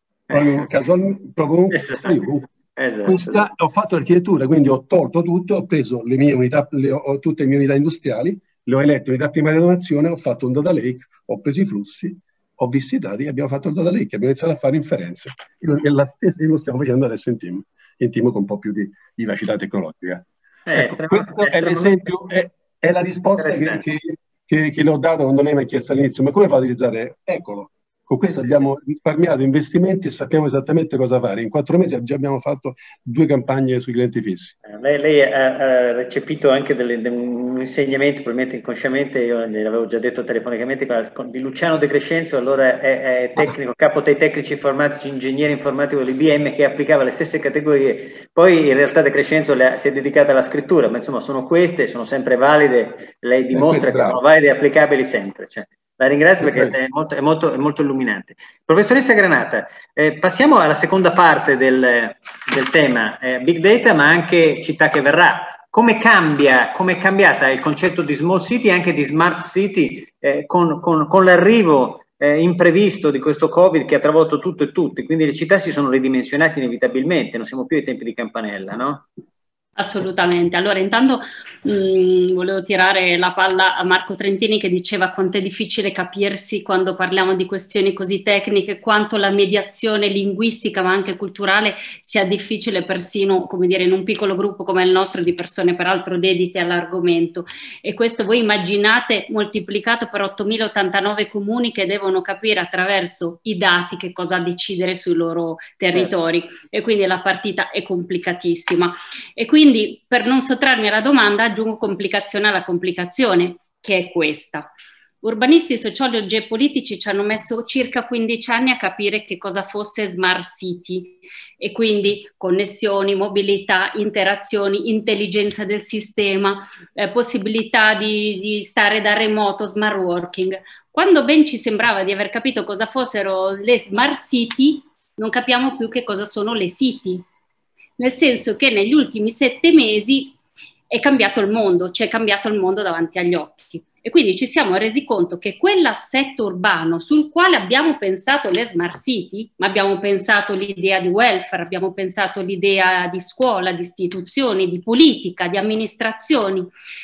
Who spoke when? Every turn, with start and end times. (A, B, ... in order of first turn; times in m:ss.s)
0:00.3-0:00.6 A
0:00.3-0:02.5 B
0:01.7-0:02.2 A
0:02.8-0:03.5 A
0:03.0-0:34.6 B
0:20.7-0:21.9 A
0:23.4-0:23.8 A
0:34.6-1:19.1 A
0:53.5-0:54.2 B
0:56.4-0:56.7 B
1:19.8-1:54.7 C
1:45.9-1:46.1 A
1:55.2-2:17.2 C
2:18.0-2:20.4 C
2:20.9-2:36.7 C